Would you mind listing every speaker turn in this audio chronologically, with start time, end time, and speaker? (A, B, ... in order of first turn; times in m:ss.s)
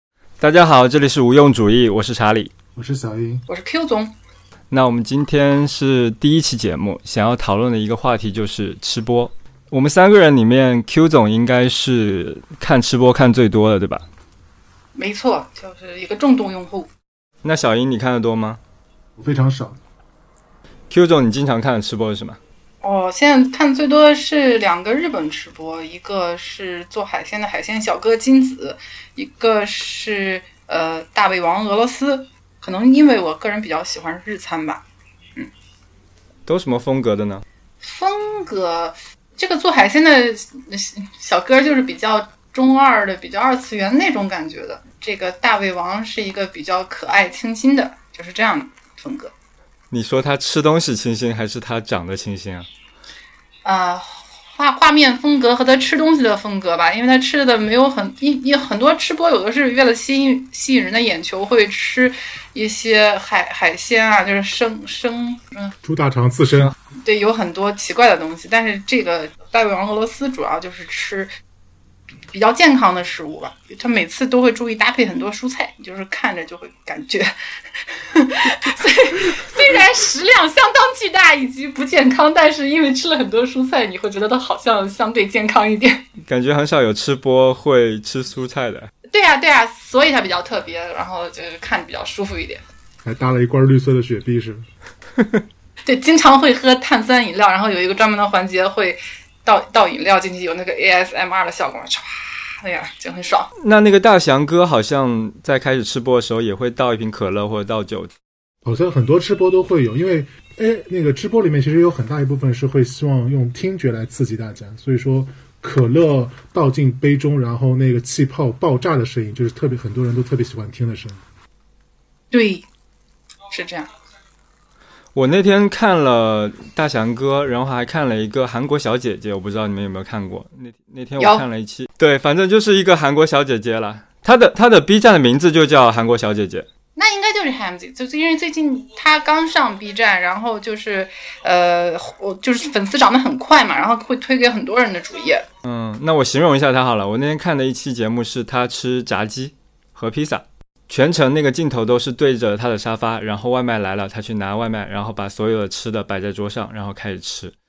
0:00.4-0:02.5 A
0:02.7-0:03.4 B
0:03.5-0:04.1 C
0:04.7-0:14.0 A
0:14.9-0:16.9 C
0:17.4-0:18.6 A
0:19.2-0:19.8 B
0:20.9-0:22.4 A
0:22.8-0:34.8 C
0:36.5-0:37.4 A
0:37.8-0:49.3 C
0:49.9-0:52.7 A
0:53.6-1:05.7 C
1:05.8-1:06.7 B
1:07.0-1:11.3 C
1:12.3-1:26.0 C
1:26.2-1:28.9 A
1:29.1-1:32.6 C
1:33.0-1:34.6 B
1:35.8-1:43.5 C
1:43.6-1:48.1 A
1:48.6-2:01.2 B
2:02.3-2:02.6 C
2:03.5-2:03.9 C
2:05.1-2:16.7 A
2:11.2-2:11.4 C
2:17.0-2:25.4 C
2:25.6-2:37.5 A